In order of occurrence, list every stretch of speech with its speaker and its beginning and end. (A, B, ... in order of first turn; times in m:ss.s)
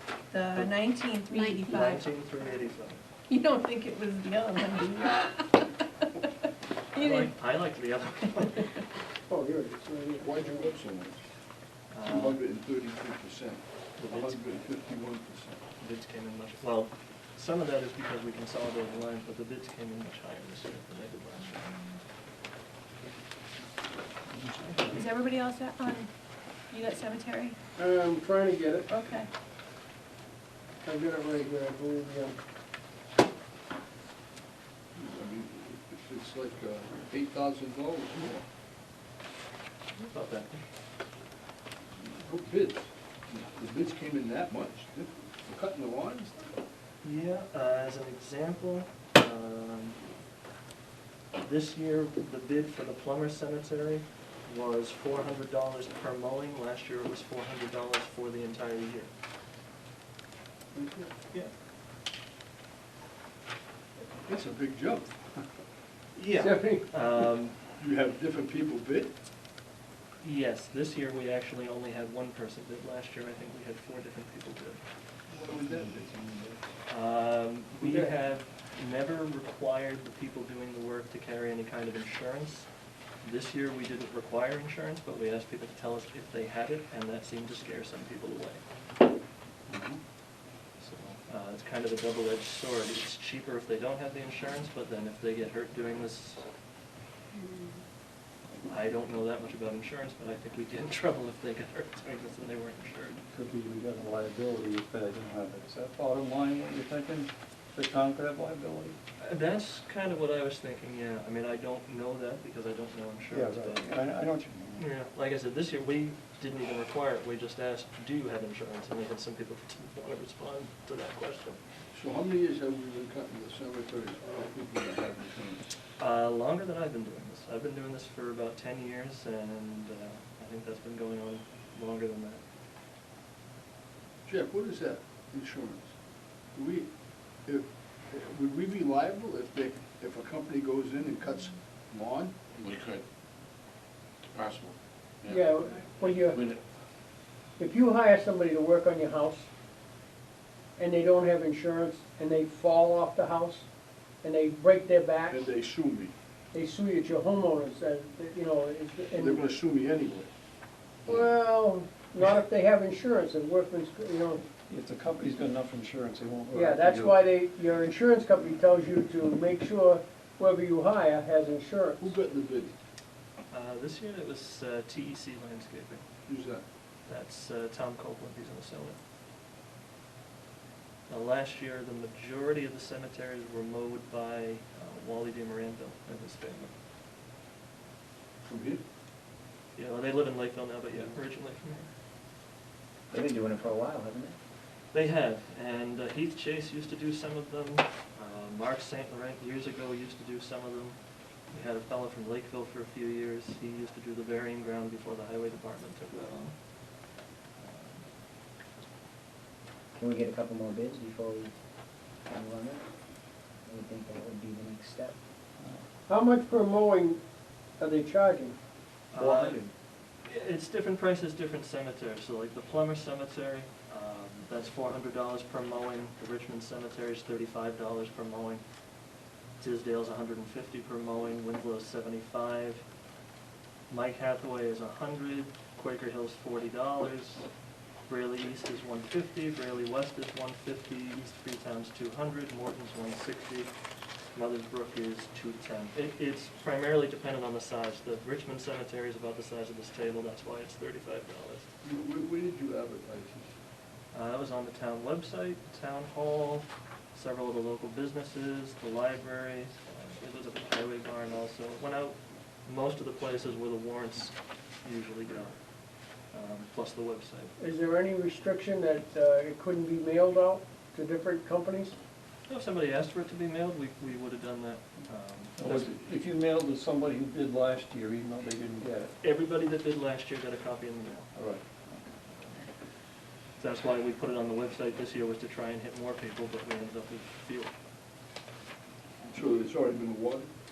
0:00.3-0:02.0 A
0:01.3-0:03.0 B
0:03.3-0:05.7 A
0:06.9-0:07.3 A
0:07.0-0:08.8 B
0:09.3-0:10.7 C
0:10.2-0:11.2 D
0:11.9-0:12.4 B
0:12.0-0:15.6 D
0:14.0-0:14.4 B
0:15.8-0:22.0 B
0:24.6-0:24.9 B
0:24.8-0:26.1 A
0:26.7-0:27.6 A
0:27.8-0:28.9 C
0:28.9-0:29.3 A
0:30.8-0:32.3 C
0:34.9-0:38.4 D
0:39.9-0:40.6 B
0:42.0-0:46.6 D
0:47.0-0:50.0 B
0:51.4-0:59.1 B
1:00.7-1:01.1 C
1:04.2-1:05.4 D
1:06.1-1:07.6 B
1:06.4-1:07.2 C
1:07.8-1:09.1 D
1:10.2-1:14.8 B
1:15.3-1:16.0 D
1:15.4-1:16.6 E
1:16.9-1:22.7 B
1:17.8-1:18.1 C
1:23.2-1:28.6 B
1:29.7-1:30.0 D
1:30.8-1:36.5 B
1:38.6-1:43.2 B
1:43.3-1:49.0 F
1:49.2-1:53.9 B
1:53.3-1:54.8 F
1:54.8-2:01.6 B
2:01.9-2:05.6 D
2:06.0-2:12.4 B
2:14.2-2:15.9 D
2:16.5-2:16.9 D
2:17.4-2:22.5 D
2:22.6-2:23.0 G
2:24.3-2:26.6 G
2:25.3-2:26.4 C
2:27.6-2:29.5 C
2:30.8-2:33.6 C
2:34.2-2:35.4 C
2:35.3-2:36.1 D
2:36.5-2:39.4 C
2:39.1-2:40.3 D
2:41.0-2:44.4 C
2:44.7-2:47.2 F
2:46.5-2:52.1 C
2:52.0-2:52.7 D
2:53.5-2:56.0 B
2:56.3-2:56.6 D
2:57.1-2:59.0 B
3:01.1-3:06.7 B
3:08.4-3:08.8 D
3:09.8-3:11.9 B
3:13.1-3:14.4 E
3:14.9-3:21.0 B
3:21.5-3:26.5 B
3:27.6-3:28.0 B
3:30.0-3:31.5 E
3:32.3-3:32.8 E
3:33.6-3:35.1 E
3:36.1-3:37.2 C
3:37.8-3:38.6 C
3:39.1-3:39.6 B
3:39.2-3:39.7 E
3:40.2-3:48.6 B
3:49.6-3:52.8 B
3:53.9-3:57.5 B
3:58.1-4:03.7 B
4:04.3-4:11.7 B
4:11.8-4:13.5 D
4:14.1-4:25.6 B
4:26.3-4:27.6 B
4:27.6-4:32.0 C
4:32.5-4:36.0 B
4:35.6-4:39.1 F
4:39.1-4:41.3 B
4:41.3-4:42.1 F
4:43.6-4:47.7 B
4:49.3-4:50.5 D